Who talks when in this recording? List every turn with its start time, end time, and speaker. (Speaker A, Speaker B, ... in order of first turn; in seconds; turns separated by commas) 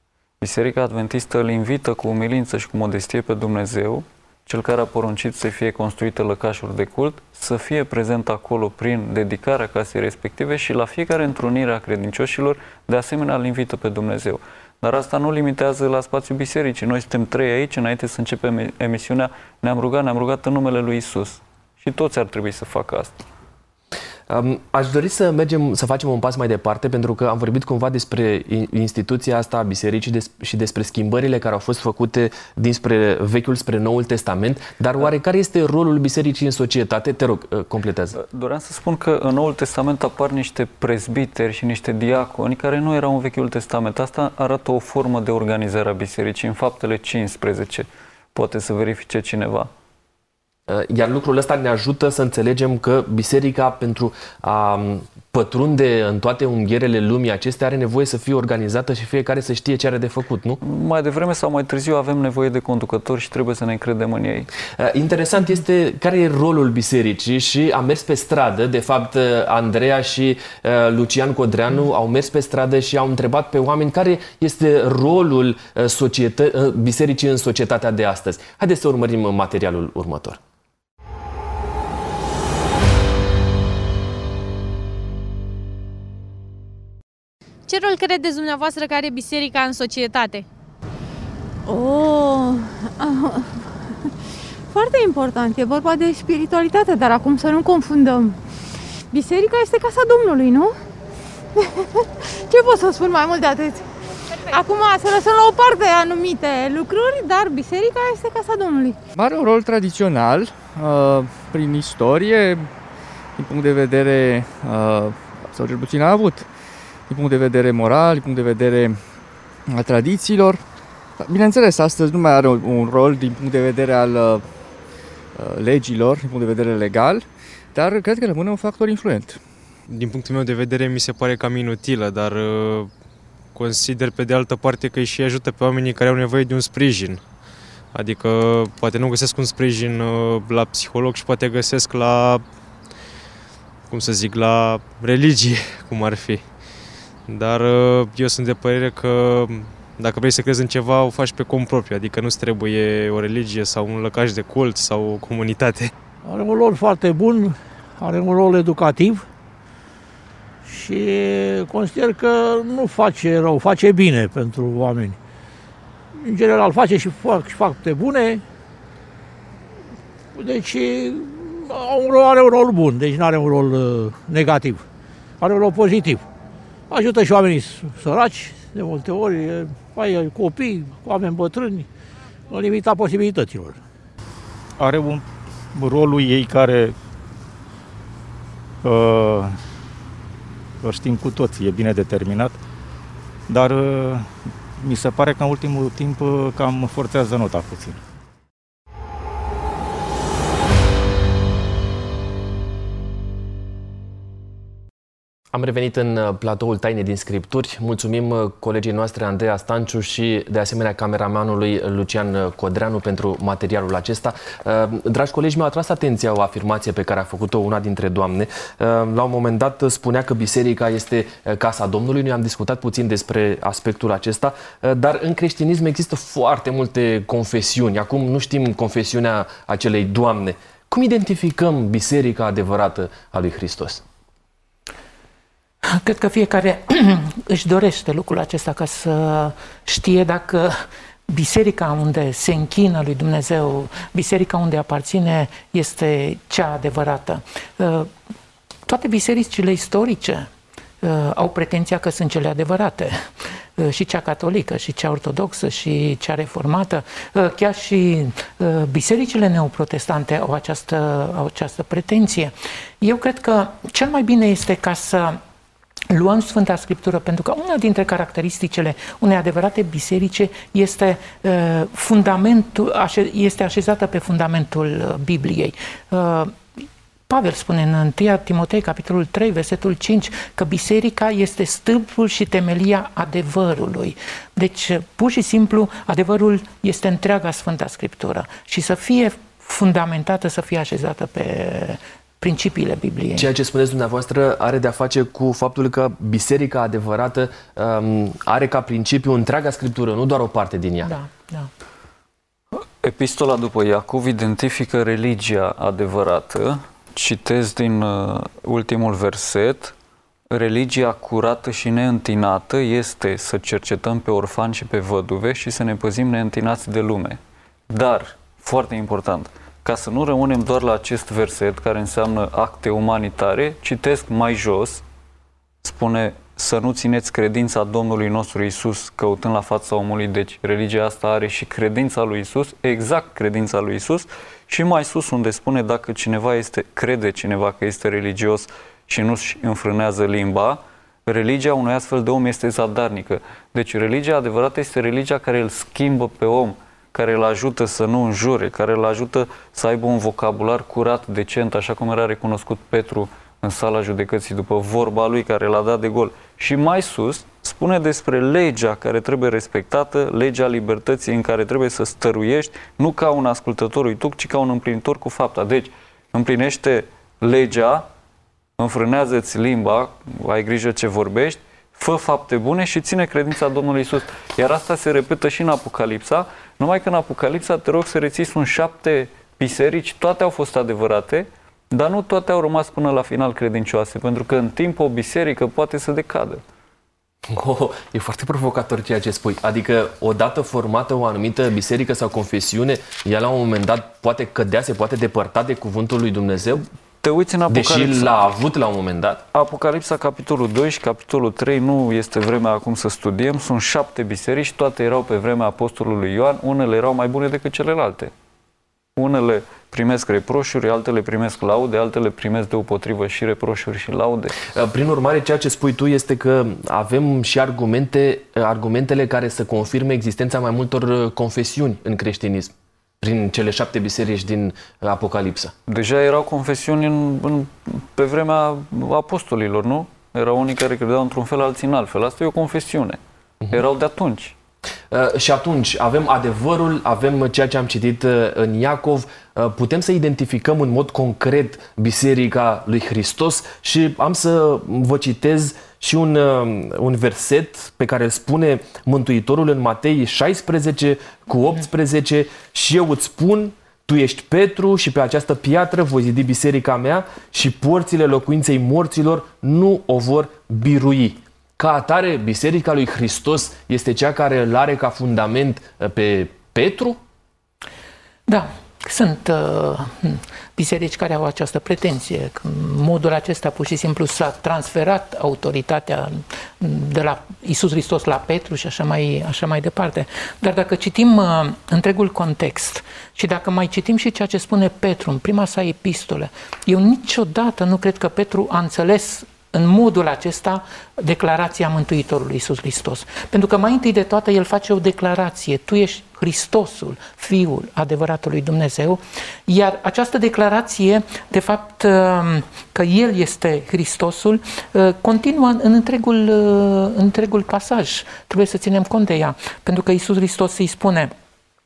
Speaker A: 0.4-23.2, Speaker B: 24.3-38.2, Speaker A: 38.2-49.7, Speaker B: 50.7-60.6, Speaker A: 60.6-64.5, Speaker B: 64.8-80.4, Speaker C: 87.7-90.5, Speaker D: 91.7-93.7, Speaker D: 94.7-98.4, Speaker D: 99.1-100.8, Speaker D: 101.6-103.8, Speaker D: 104.5-109.0, Speaker E: 109.1-112.7, Speaker E: 113.4-116.5, Speaker E: 117.1-119.0, Speaker E: 119.7-120.6, Speaker E: 121.2-124.5, Speaker E: 125.3-129.4, Speaker F: 129.9-132.9, Speaker F: 133.6-137.2, Speaker F: 137.9-142.4, Speaker F: 143.9-146.4, Speaker F: 147.3-155.9, Speaker G: 156.2-159.3, Speaker G: 160.6-165.2, Speaker G: 166.2-168.4, Speaker G: 170.3-174.8, Speaker G: 175.4-176.2, Speaker G: 176.9-181.9, Speaker G: 182.5-183.8, Speaker H: 184.8-187.0, Speaker H: 188.8-189.6, Speaker H: 190.8-192.6, Speaker H: 193.5-198.0, Speaker B: 205.5-234.0, Speaker I: 235.8-248.1, Speaker I: 248.9-250.5, Speaker I: 251.0-265.4, Speaker I: 266.1-276.6, Speaker I: 277.3-293.5, Speaker B: 293.4-301.1, Speaker I: 301.1-301.7, Speaker A: 303.0-309.9, Speaker A: 310.5-325.0, Speaker A: 325.8-368.1, Speaker A: 368.8-386.6, Speaker B: 387.5-396.9, Speaker A: 397.2-398.3, Speaker B: 397.7-399.4, Speaker A: 399.5-408.3, Speaker A: 409.2-414.6, Speaker B: 414.6-425.7, Speaker A: 425.9-433.2, Speaker A: 433.7-434.6, Speaker B: 435.1-467.2, Speaker I: 468.5-511.3